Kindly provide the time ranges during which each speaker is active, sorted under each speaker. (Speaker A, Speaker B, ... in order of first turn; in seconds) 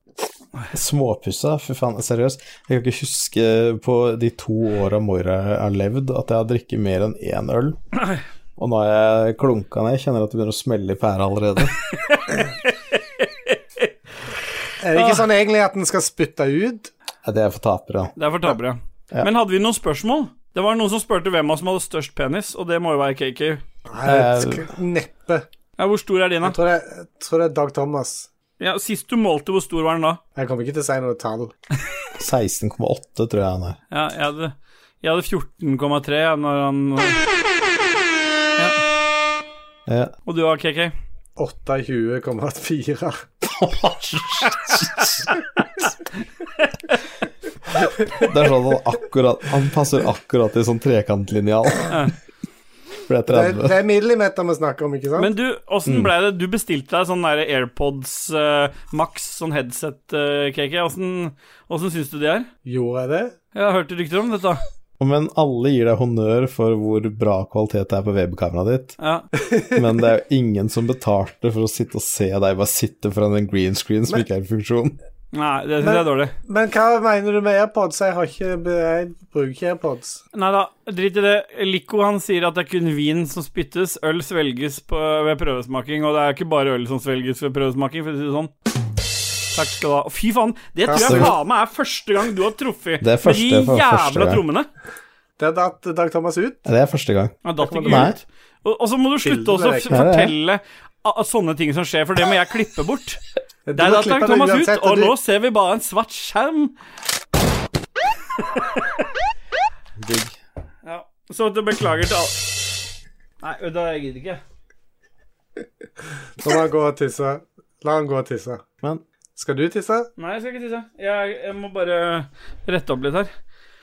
Speaker A: 0.7-7.8, 8.6-11.8, 17.2-18.2, 24.0-24.7, 32.2-33.8, 39.9-40.1, 43.4-45.2, 48.1-52.1, 53.1-53.8, 55.9-56.1, 65.0-69.0, 69.7-75.0, 91.0-91.3, 93.0-94.4, 96.7-98.2, 99.9-100.3, 110.0-110.4
Speaker B: 11.9-13.9, 14.9-15.2, 18.2-23.6, 25.8-26.6, 28.6-30.2, 33.9-37.2, 40.3-40.9, 46.6-47.0, 55.2-62.5, 63.5-64.6, 69.0-69.3, 75.3-76.3, 80.3-88.5, 89.5-94.7, 97.5-103.2, 103.8-106.7, 108.6-108.8, 110.8-112.4, 113.4-114.4, 120.2-123.3
Speaker C: 14.8-16.9, 23.9-25.4, 26.4-28.3, 30.4-31.5, 41.4-43.2, 53.3-55.3, 62.6-63.4, 69.5-69.7, 75.8-80.2, 90.9-91.4, 95.4-96.7, 97.6-98.1, 99.2-100.0, 103.7-105.1, 116.4-118.6, 119.4-120.1